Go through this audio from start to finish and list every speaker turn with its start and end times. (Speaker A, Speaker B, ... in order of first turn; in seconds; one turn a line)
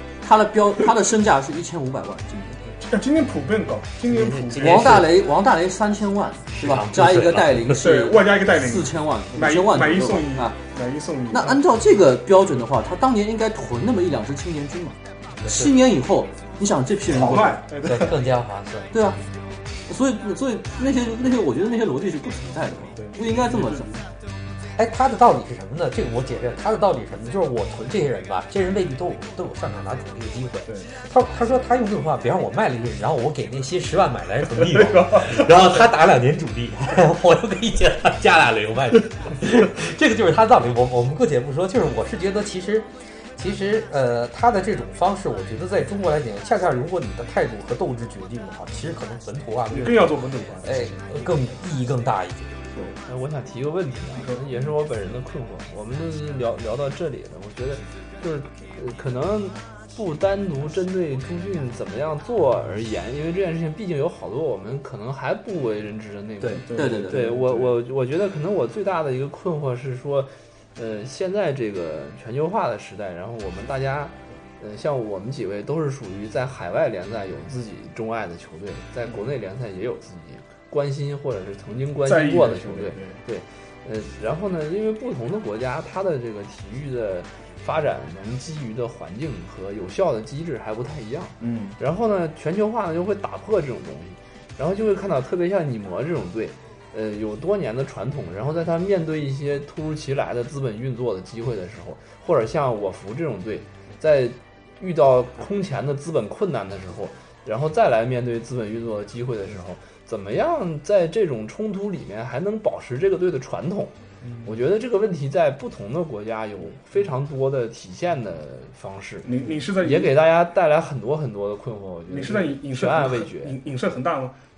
Speaker A: 0.2-2.6
Speaker B: 2.7-5.1
Speaker C: 4.1-5.1
Speaker A: 4.6-10.6
Speaker C: 6.5-7.8
Speaker B: 7.8-11.6
Speaker A: 11.3-17.6
Speaker C: 15.4-15.7
Speaker B: 17.1-18.2
Speaker C: 17.8-18.9
Speaker A: 18.9-19.2
Speaker A: 19.9-24.0
Speaker B: 23.0-24.0
Speaker C: 24.8-52.5
Speaker B: 34.6-35.6
Speaker B: 49.7-51.5
Speaker D: 53.0-123.6
Speaker B: 54.2-54.7
Speaker B: 66.6-67.8
Speaker A: 66.7-67.4
Speaker B: 82.0-83.2
Speaker B: 91.4-91.8
Speaker B: 114.2-114.5
Speaker B: 119.2-120.2
Speaker B: 122.1-124.3